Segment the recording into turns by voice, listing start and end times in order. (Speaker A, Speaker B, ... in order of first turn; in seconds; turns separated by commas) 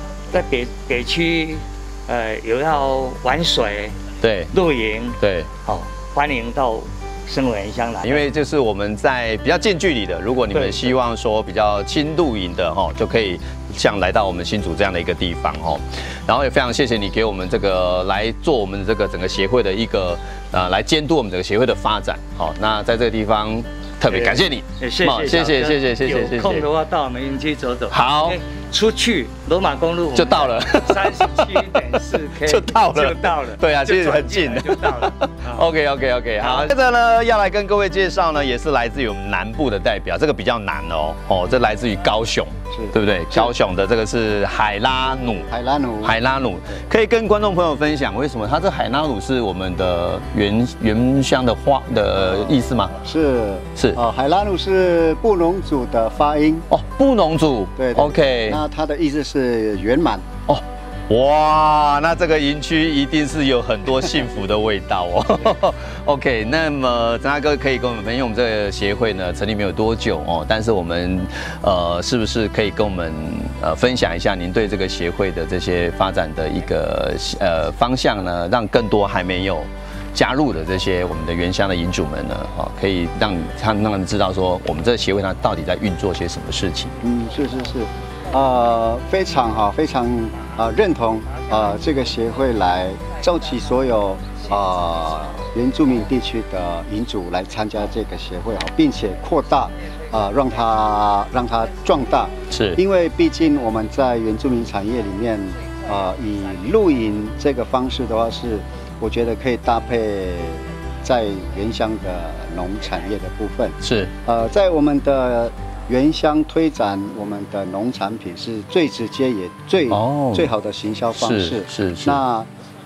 Speaker A: 0.3-4.0, Speaker B: 4.2-4.5, Speaker A: 4.5-8.3, Speaker B: 5.2-5.5, Speaker B: 8.0-26.6, Speaker A: 24.1-35.6, Speaker B: 27.9-28.4, Speaker B: 30.1-45.5, Speaker A: 36.4-36.7, Speaker C: 42.7-43.5, Speaker C: 45.5-46.1, Speaker B: 46.0-53.0, Speaker C: 53.0-56.7, Speaker B: 56.7-58.6, Speaker C: 57.8-60.3, Speaker B: 60.5-87.0, Speaker C: 87.0-122.5, Speaker B: 102.5-102.8, Speaker B: 113.8-114.1, Speaker B: 119.9-120.5, Speaker B: 121.2-122.2